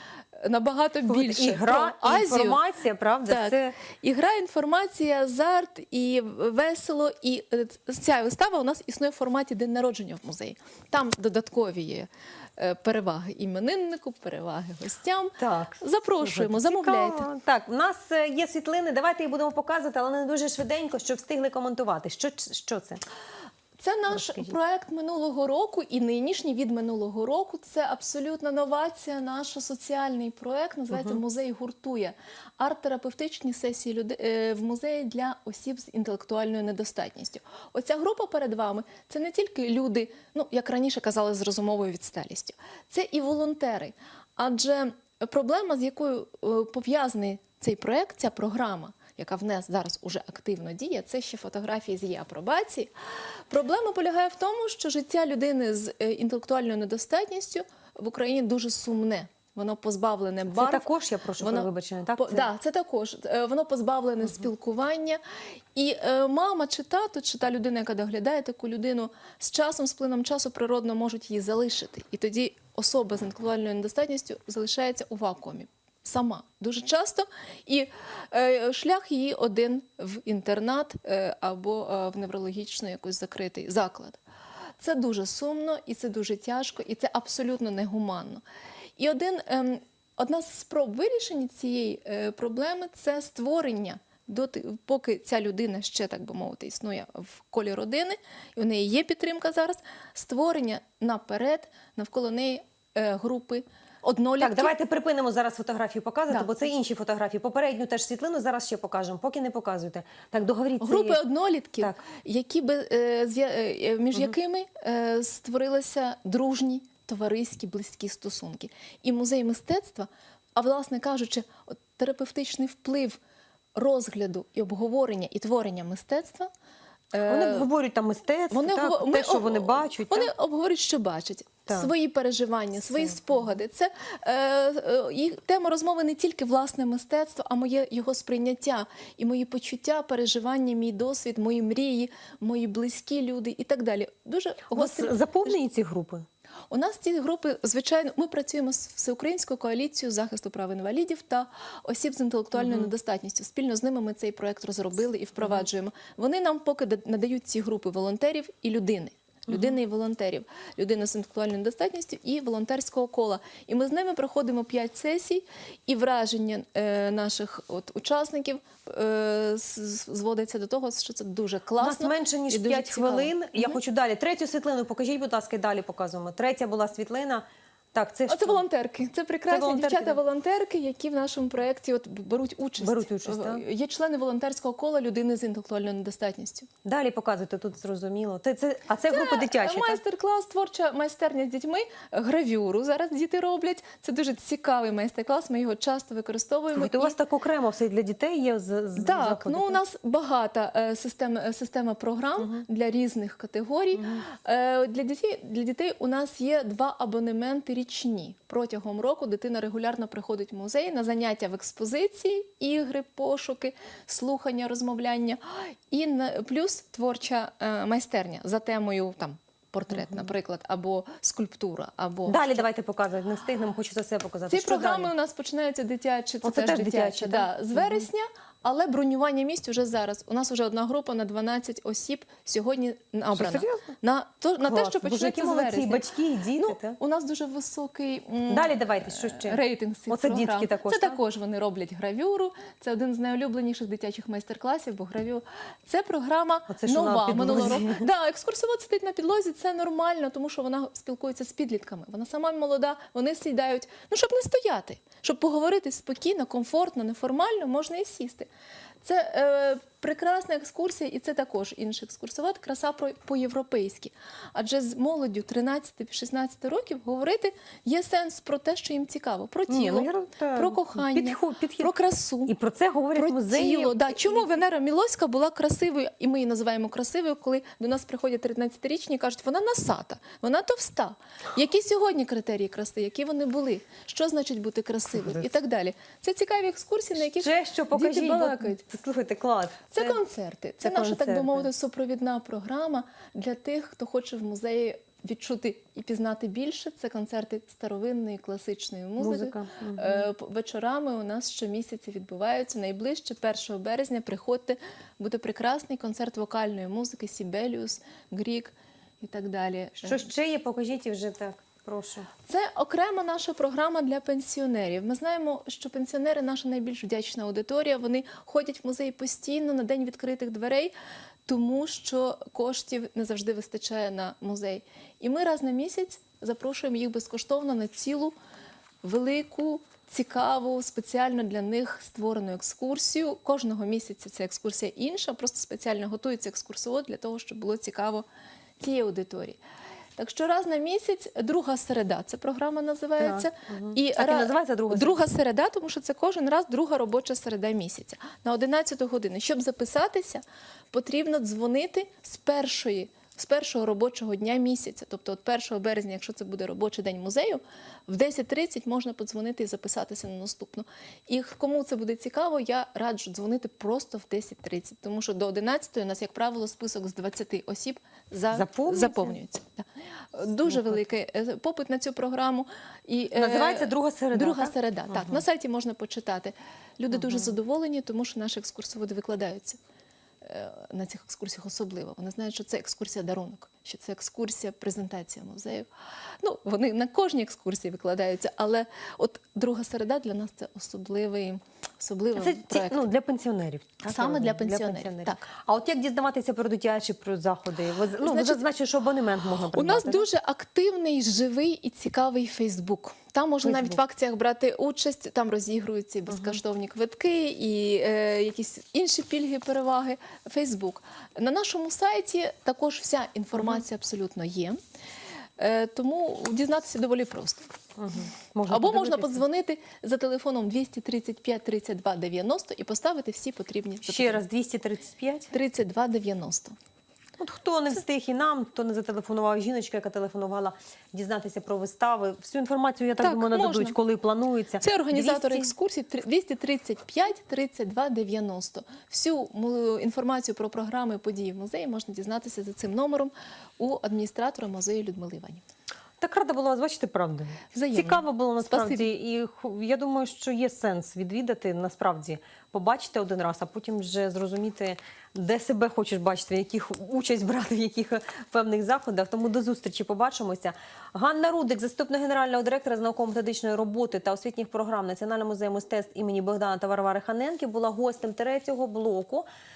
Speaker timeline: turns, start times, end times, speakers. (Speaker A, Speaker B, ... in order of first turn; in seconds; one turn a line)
Speaker A: 0.3-2.6
Speaker B: 1.1-3.8
Speaker A: 3.2-17.3
Speaker B: 15.4-23.0
Speaker A: 23.8-52.9
Speaker B: 24.1-24.5
Speaker B: 30.9-31.2
Speaker A: 53.5-60.9
Speaker B: 60.5-62.5
Speaker A: 61.4-65.2
Speaker A: 65.7-84.2
Speaker A: 84.8-88.4
Speaker A: 89.0-104.7
Speaker B: 104.4-111.2
Speaker A: 110.8-123.2
Speaker A: 123.7-126.5
Speaker A: 127.1-127.7
Speaker B: 127.2-130.3
Speaker A: 128.5-145.5
Speaker B: 144.7-146.2
Speaker A: 146.7-173.8
Speaker B: 152.5-152.9
Speaker B: 159.5-159.8
Speaker B: 171.8-178.6
Speaker A: 178.3-186.7
Speaker B: 179.5-180.2
Speaker B: 182.8-183.6
Speaker B: 186.8-190.0
Speaker A: 189.1-197.2
Speaker B: 196.7-199.8
Speaker A: 199.0-222.6
Speaker B: 203.9-204.2
Speaker B: 219.9-220.3
Speaker B: 222.2-225.1
Speaker A: 224.5-236.0
Speaker B: 226.4-228.1
Speaker B: 233.3-233.9
Speaker B: 234.6-237.0
Speaker A: 236.6-258.5
Speaker B: 238.5-241.2
Speaker B: 246.7-248.1
Speaker A: 259.0-272.5
Speaker B: 269.7-271.9
Speaker B: 272.4-274.5
Speaker A: 273.1-288.8
Speaker B: 285.1-285.5
Speaker B: 287.3-290.2
Speaker A: 289.9-310.3
Speaker B: 290.8-291.7
Speaker B: 299.2-300.3
Speaker B: 310.0-312.3
Speaker A: 312.5-320.9
Speaker A: 321.4-328.3
Speaker A: 329.0-338.2
Speaker A: 338.8-339.6
Speaker A: 340.2-379.8
Speaker B: 343.2-345.2
Speaker B: 368.5-369.3
Speaker B: 370.7-371.0
Speaker B: 373.3-375.4
Speaker B: 377.1-377.5
Speaker A: 380.4-385.9
Speaker A: 386.4-393.1
Speaker B: 392.3-400.3
Speaker A: 394.0-395.4
Speaker A: 398.2-398.6
Speaker A: 399.7-414.8
Speaker B: 403.6-404.0
Speaker B: 406.3-406.6
Speaker B: 413.5-413.8
Speaker A: 415.6-417.7
Speaker B: 418.0-419.4
Speaker A: 418.7-424.4
Speaker B: 424.0-425.5
Speaker A: 425.5-426.7
Speaker B: 427.4-435.7
Speaker A: 433.2-434.0
Speaker A: 434.8-445.6
Speaker B: 446.2-469.4
Speaker A: 447.7-449.1